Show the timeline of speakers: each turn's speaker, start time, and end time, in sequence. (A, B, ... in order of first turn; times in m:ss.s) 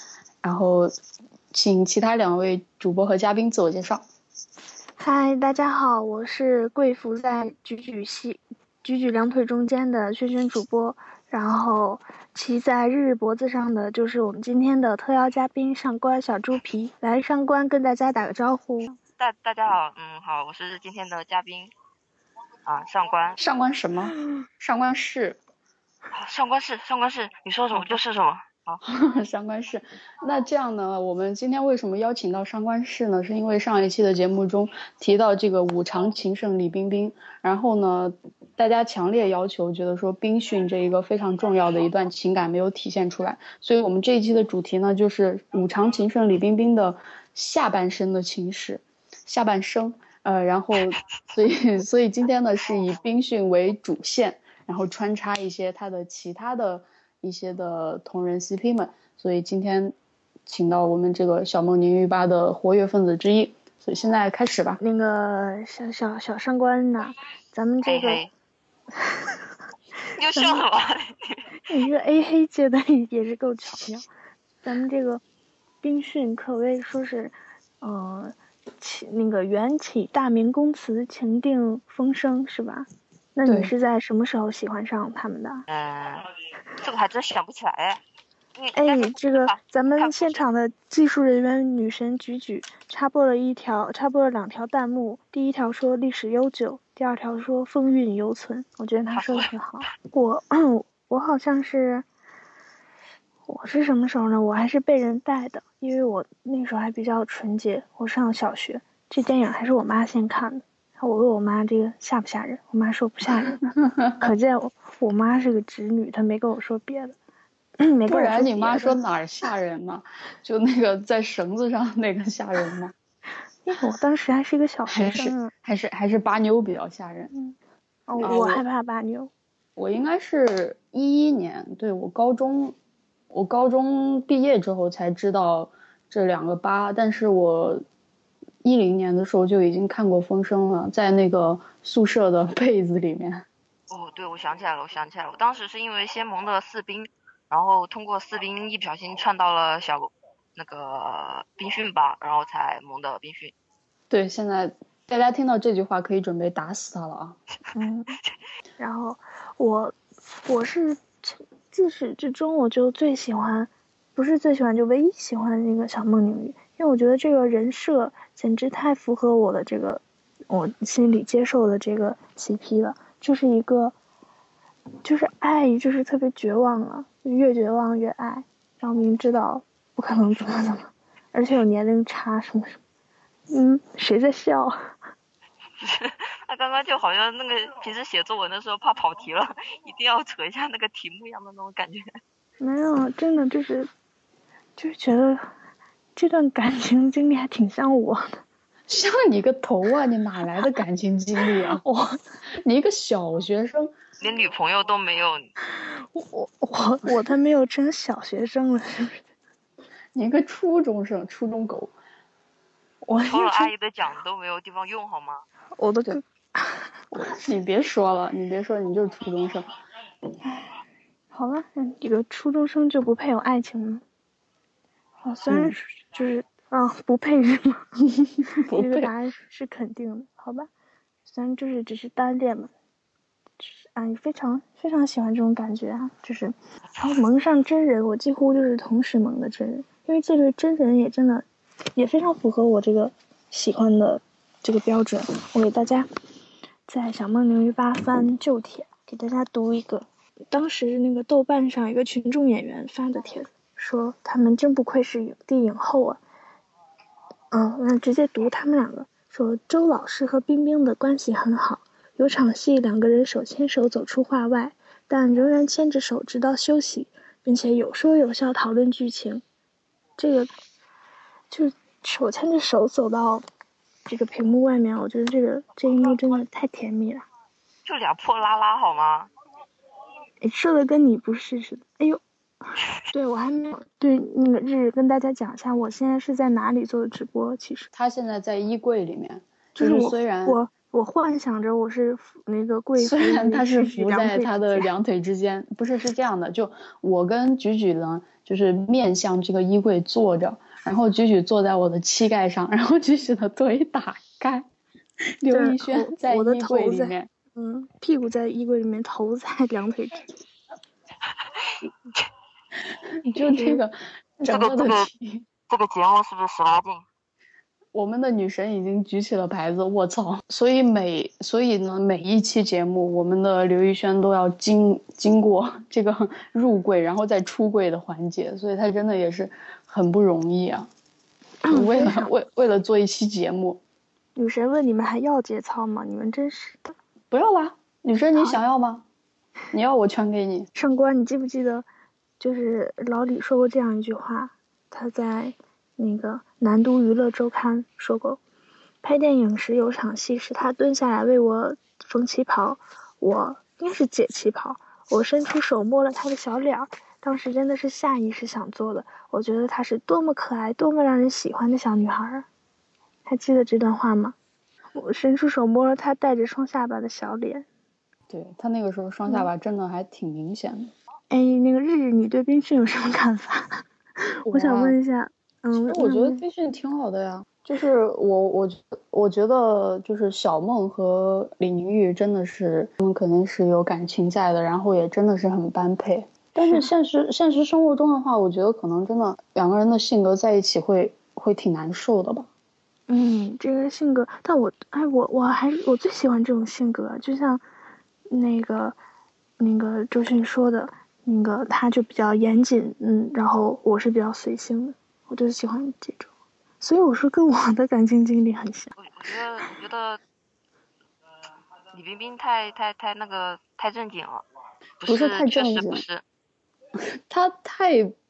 0:00.4-0:00.9 A
0:01.5-0:04.0 A
0:05.0-0:19.0 B
0:19.2-0:21.7 C
0:22.7-0:23.4 C
0:23.4-0:25.4 A
0:26.1-0:28.8 C
0:28.8-1:00.0 A
1:00.5-1:04.8 A
1:04.8-1:08.2 B
1:07.8-1:08.3 C
1:09.0-1:09.4 B
1:10.1-1:11.5 C
1:10.3-1:10.7 B
1:11.7-1:14.1 B
1:14.6-1:15.2 B
1:15.8-1:25.6 B
1:23.5-1:23.7 A
1:25.7-1:28.0 C
1:28.6-1:30.4 C
1:28.8-1:42.1 B
1:39.1-1:39.5 C
1:43.5-1:53.6 B
1:54.2-1:57.2 B
1:57.8-1:59.0 B
1:58.1-2:02.9 A
2:03.6-2:05.5 B
2:04.9-2:07.3 A
2:08.1-2:09.3 B
2:08.2-2:08.6 A
2:09.8-2:12.8 A
2:13.3-2:17.8 A
2:18.6-2:23.4 A
2:23.9-2:33.5 C
2:34.1-2:37.4 A
2:37.7-2:38.2 B
2:38.8-2:54.0 B
2:55.0-3:02.8 B
3:03.5-3:04.8 B
3:05.8-3:12.1 C
3:12.6-3:13.9 B
3:14.8-3:15.5 B
3:16.2-3:18.4 B
3:18.9-3:21.8 A
3:21.4-3:22.2 B
3:22.5-3:24.0 A
3:24.2-3:25.5 C
3:25.7-3:29.3 B
3:30.2-3:31.9 A
3:33.0-3:33.7 B
3:33.2-3:35.4 C
3:35.8-3:36.8 B
3:37.1-3:39.7 A
3:40.4-3:40.7 B
3:41.3-3:44.0 B
3:45.2-3:47.8 B
3:45.5-3:45.8 A
3:48.5-3:49.1 A
3:48.7-3:50.7 B
3:51.3-3:52.7 B
3:53.6-4:01.4 B
4:02.0-4:06.1 B
4:06.9-4:16.2 B
4:17.5-4:29.4 B
4:30.2-4:30.5 B
4:31.5-4:33.4 B
4:34.1-4:37.3 B
4:37.8-4:39.3 C
4:40.4-4:42.2 B
4:43.1-4:47.9 B
4:47.9-4:50.6 A
4:49.8-4:54.9 B
4:53.0-5:04.7 A
5:05.4-5:07.3 A
5:05.5-5:10.3 B
5:11.6-5:12.2 C
5:13.2-5:15.5 A
5:13.3-5:13.8 B
5:14.5-5:15.1 C
5:15.7-5:17.0 C
5:17.9-5:30.9 A
5:31.6-5:32.3 B
5:31.7-5:33.8 A
5:34.4-5:37.0 B
5:37.3-5:39.0 A
5:38.3-5:38.6 B
5:39.7-5:40.7 A
5:40.8-5:41.9 B
5:42.4-5:48.4 B
5:49.0-6:02.5 B
6:03.3-6:04.4 B
6:04.9-6:07.7 B
6:08.3-6:10.9 A
6:11.3-6:16.4 B
6:14.5-6:15.0 A
6:15.7-6:32.5 A
6:33.1-6:37.6 B
6:38.3-6:39.0 B
6:39.6-6:48.9 B
6:49.0-6:50.2 C
6:51.9-6:54.4 C
6:55.0-6:56.2 C
6:55.1-6:56.0 A
6:57.3-6:58.1 A